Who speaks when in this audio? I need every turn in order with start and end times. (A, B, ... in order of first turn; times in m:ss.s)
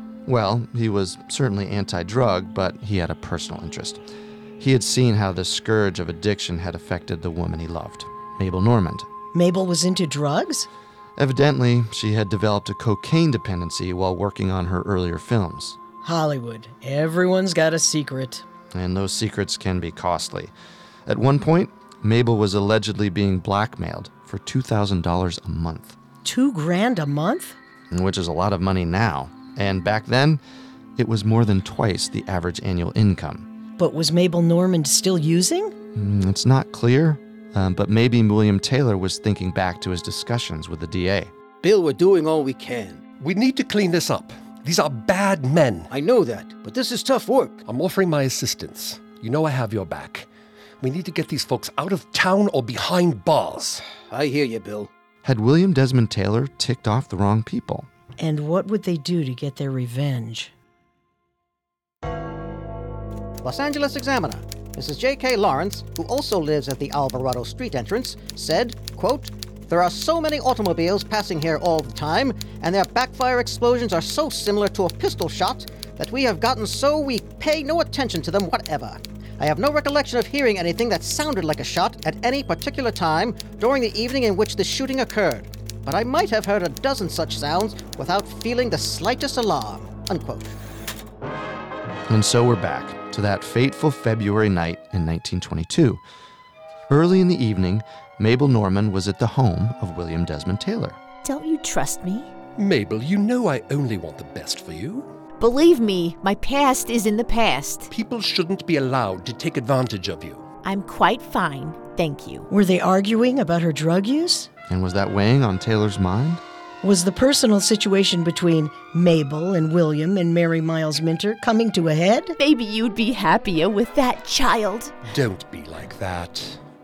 0:00.2-0:04.0 A
0:04.6-0:09.1 A
0:09.3-0:10.7 B
0:11.2-0:15.8 A
0:16.0-0:18.4 B
0:18.7-0:20.5 A
0:21.0-0:26.0 A
0:26.2-0:27.6 B
0:27.9-0:30.4 A
0:31.0-0:33.5 A
0:33.8-0:35.7 B
0:35.9-0:41.3 A
0:41.6-0:43.0 C
0:43.2-0:45.9 D
0:45.9-0:47.6 C
0:47.7-0:50.3 D
0:50.8-0:53.8 D
0:54.1-0:54.9 C
0:55.2-0:57.9 A
0:58.2-1:00.5 B
1:03.4-1:30.5 E
1:32.1-1:36.0 A
1:36.9-1:41.0 A
1:41.2-1:42.3 F
1:42.6-1:45.1 D
1:45.4-1:47.9 F
1:47.9-1:50.4 D
1:50.6-1:52.5 F
1:52.5-1:54.5 B
1:54.7-1:56.4 A
1:56.8-2:02.4 B
2:02.4-2:04.9 F
2:05.0-2:06.6 D